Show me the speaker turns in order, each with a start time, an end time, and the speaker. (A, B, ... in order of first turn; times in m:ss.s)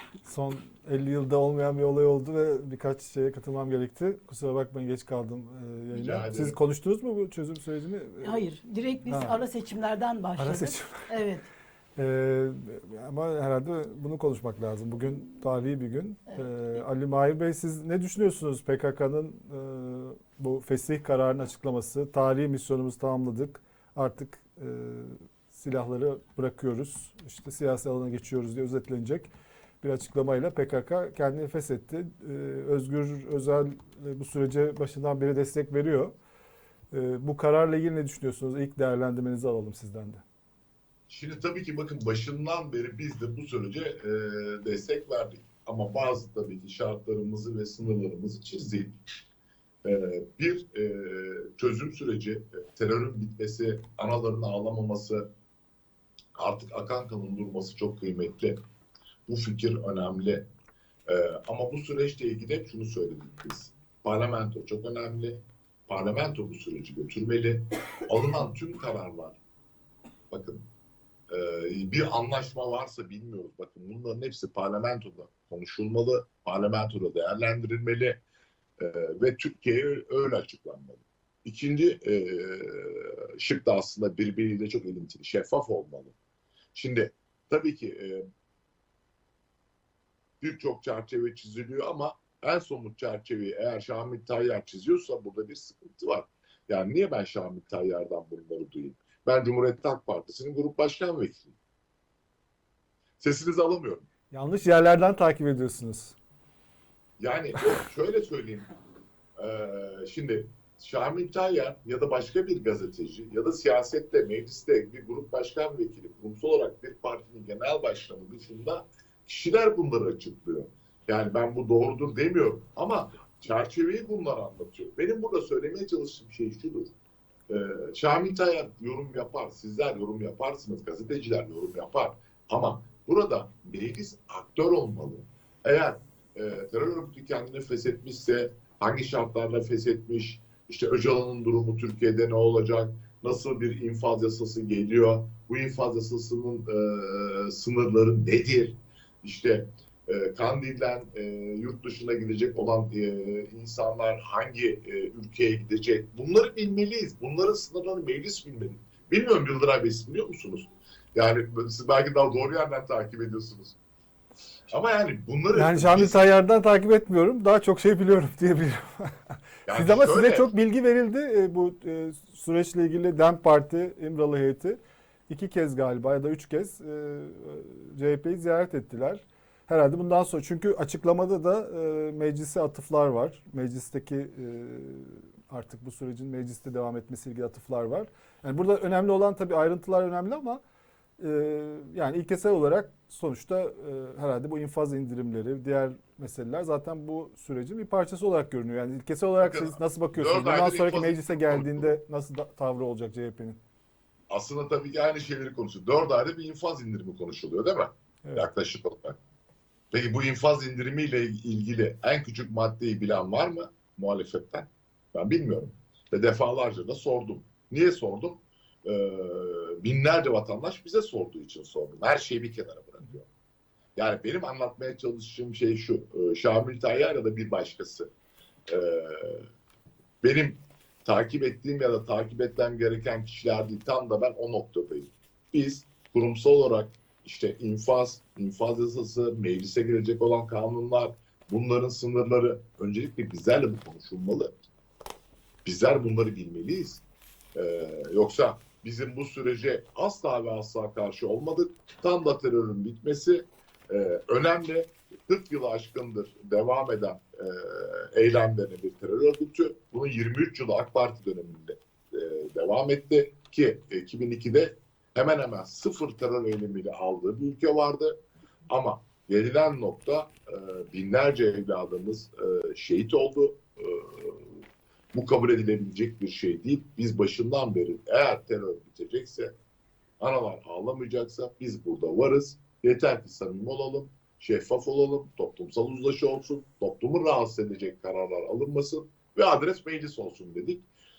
0:00.2-0:08.4 A
0:05.9-0:06.6 B
0:08.2-0:11.5 C
0:09.1-0:09.4 A
0:10.4-0:11.1 A
0:12.0-0:36.2 A
0:36.9-0:40.2 A
0:41.1-0:49.0 B
0:49.8-0:55.3 B
0:56.4-0:58.6 B
0:59.3-1:00.5 B
1:01.1-1:09.4 B
1:10.3-1:10.7 B
1:11.3-1:18.2 B
1:18.8-1:26.2 B
1:26.7-1:28.3 B
1:30.4-1:41.6 B
1:43.2-1:44.1 B
1:44.3-1:46.2 A
1:47.2-1:48.7 B
1:49.4-2:06.9 B
2:07.5-2:43.8 B
2:44.7-2:46.3 B
2:45.6-3:10.6 A
2:49.7-2:50.5 B
3:11.2-3:23.6 A
3:19.4-3:21.9 B
3:24.3-3:29.2 B
3:29.9-3:43.3 B
3:44.0-3:48.1 B
3:48.7-3:49.5 B
3:50.2-4:04.6 B
4:05.6-4:07.0 B
4:07.6-4:28.2 B
4:28.7-4:34.6 B
4:35.1-4:39.5 B
4:40.2-4:50.9 B